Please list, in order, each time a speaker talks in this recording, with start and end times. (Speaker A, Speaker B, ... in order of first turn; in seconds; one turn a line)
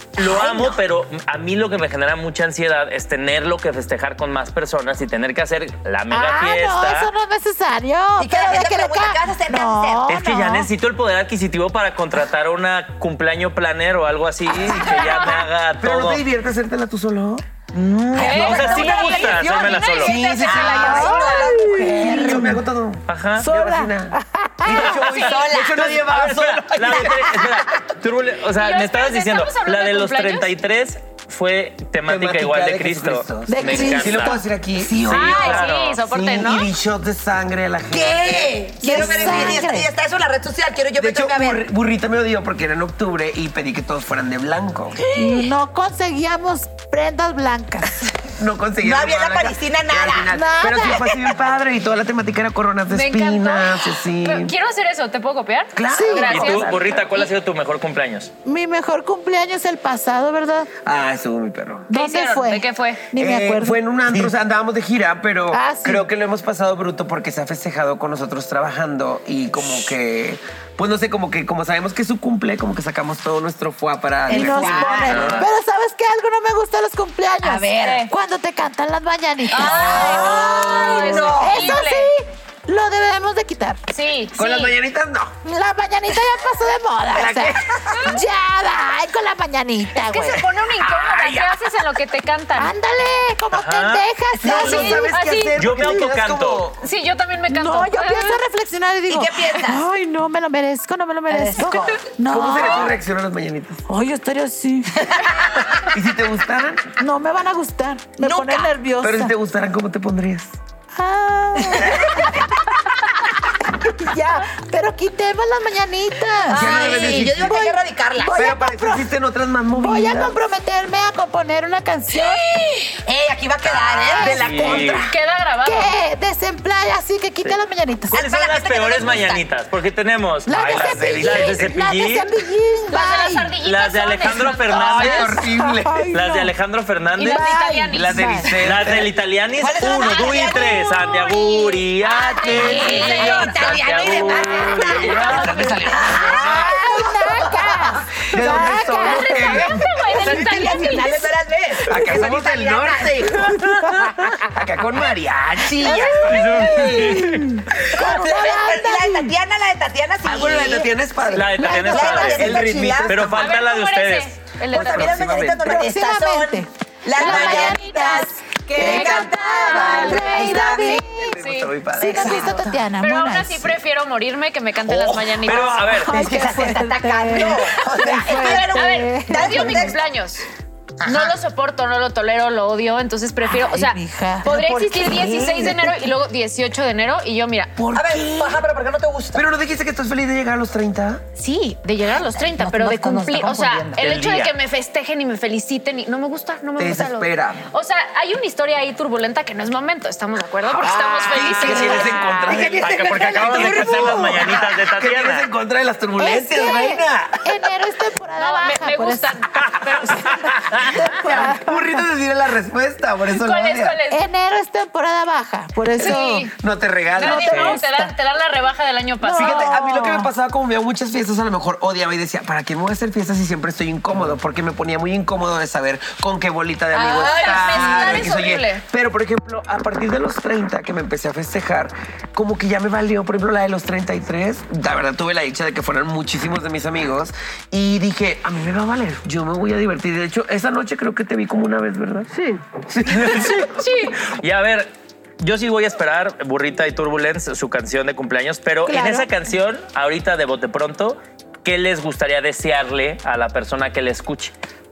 Speaker A: 0.2-7.1
Speaker B: 0.2-0.8
Speaker C: 6.1-10.7
Speaker B: 8.2-10.2
Speaker A: 10.1-16.2
Speaker D: 14.9-15.4
Speaker E: 15.8-17.4
Speaker A: 17.7-20.2
Speaker D: 18.1-21.4
Speaker B: 18.1-22.6
Speaker E: 20.0-27.3
Speaker C: 20.7-22.6
Speaker A: 23.1-23.5
Speaker C: 23.4-25.1
Speaker B: 24.7-26.1
Speaker A: 25.1-34.4
Speaker B: 26.9-27.8
Speaker D: 28.6-30.5
Speaker E: 32.1-39.6
Speaker C: 33.5-34.4
Speaker B: 34.8-35.6
Speaker A: 35.1-36.0
Speaker D: 35.1-36.7
Speaker B: 37.9-41.6
Speaker C: 38.8-39.9
Speaker E: 41.0-45.0
Speaker B: 45.0-45.5
Speaker C: 45.1-48.0
Speaker E: 48.3-54.5
Speaker B: 48.8-50.3
Speaker C: 50.3-51.1
Speaker D: 52.9-57.3
Speaker E: 55.8-57.1
Speaker C: 55.9-56.3
Speaker A: 56.3-58.3
Speaker C: 58.5-60.7
Speaker E: 60.8-61.9
Speaker C: 61.9-64.3
Speaker D: 61.9-63.1
Speaker E: 63.2-75.5
Speaker C: 65.5-66.1
Speaker B: 74.3-75.3
Speaker C: 74.3-83.8
Speaker A: 75.1-75.5
Speaker B: 77.4-78.1
Speaker D: 77.8-78.1
Speaker B: 79.5-81.9
Speaker D: 79.5-82.1
Speaker E: 79.9-81.3
Speaker D: 83.9-84.7
Speaker E: 84.4-85.3
Speaker C: 85.5-90.5
Speaker E: 87.1-87.9
Speaker B: 87.2-88.0
Speaker D: 90.0-92.7
Speaker E: 90.9-91.5
Speaker C: 92.6-95.2
Speaker A: 93.5-94.1
Speaker B: 94.3-94.9
Speaker E: 94.4-96.9
Speaker D: 94.7-95.6
Speaker A: 95.5-96.7
Speaker D: 96.8-98.4
Speaker C: 97.5-103.0
Speaker B: 99.1-99.9
Speaker B: 101.3-102.1
Speaker D: 101.7-102.0
Speaker E: 102.3-103.8
Speaker C: 103.9-105.4
Speaker B: 105.0-105.9
Speaker E: 105.8-106.9
Speaker C: 107.0-109.3
Speaker B: 108.2-108.7
Speaker E: 109.0-110.6
Speaker C: 111.0-112.4
Speaker B: 111.7-112.4
Speaker C: 113.6-119.1
Speaker E: 116.5-117.5
Speaker B: 116.5-118.3
Speaker E: 118.3-120.4
Speaker C: 119.8-122.4
Speaker B: 122.1-125.2
Speaker A: 123.6-125.1
Speaker C: 124.1-125.0
Speaker D: 125.0-126.0
Speaker C: 125.7-128.2
Speaker A: 128.1-132.3
Speaker B: 128.1-129.5
Speaker C: 130.5-133.6
Speaker E: 130.6-131.7
Speaker D: 132.9-135.4
Speaker A: 133.6-135.3
Speaker E: 134.7-136.1
Speaker C: 135.0-136.5
Speaker A: 136.1-137.5
Speaker D: 137.2-138.3
Speaker C: 137.2-138.6
Speaker E: 137.9-139.1
Speaker A: 138.4-146.0
Speaker B: 139.6-141.3
Speaker E: 142.1-147.1
Speaker D: 142.3-143.5
Speaker B: 142.4-148.2
Speaker C: 145.1-151.1
Speaker E: 148.2-150.6
Speaker D: 149.0-151.3
Speaker B: 150.2-153.4
Speaker E: 151.8-153.7
Speaker C: 151.9-152.2
Speaker C: 153.7-154.3
Speaker E: 154.3-157.4
Speaker D: 155.8-156.9
Speaker C: 156.0-159.4
Speaker A: 156.2-157.5
Speaker B: 157.9-163.3
Speaker E: 160.2-163.6
Speaker A: 161.3-164.3
Speaker C: 161.5-162.4
Speaker D: 163.3-165.2
Speaker E: 164.7-165.8
Speaker B: 164.7-171.3
Speaker C: 165.5-171.4
Speaker A: 167.2-167.7
Speaker D: 167.3-170.3
Speaker E: 170.0-172.7
Speaker D: 171.4-172.2
Speaker C: 171.9-173.8
Speaker B: 172.2-172.8
Speaker D: 173.0-176.1
Speaker B: 174.8-179.9
Speaker A: 175.4-176.2
Speaker C: 175.9-179.9
Speaker D: 177.6-180.5
Speaker B: 181.0-181.4
Speaker D: 181.0-187.8
Speaker C: 183.4-184.6
Speaker B: 184.4-186.2
Speaker E: 187.8-188.6
Speaker B: 187.9-189.4
Speaker E: 189.3-191.2
Speaker D: 191.4-202.4
Speaker B: 192.1-194.0
Speaker A: 194.0-194.6
Speaker E: 196.8-197.7
Speaker E: 200.7-207.5
Speaker C: 201.6-202.1
Speaker A: 202.5-205.5
Speaker C: 206.2-209.4
Speaker D: 208.4-211.1
Speaker C: 210.1-212.0
Speaker E: 211.0-214.0
Speaker D: 213.3-214.3
Speaker C: 214.1-216.5
Speaker D: 216.0-216.5
Speaker E: 216.0-217.8
Speaker D: 217.2-219.7
Speaker C: 217.2-218.1
Speaker A: 217.4-217.8
Speaker C: 219.2-220.3
Speaker E: 219.4-243.6
Speaker D: 226.9-228.8
Speaker D: 243.1-244.1
Speaker A: 243.2-243.7
Speaker A: 244.2-254.5
Speaker C: 248.9-249.3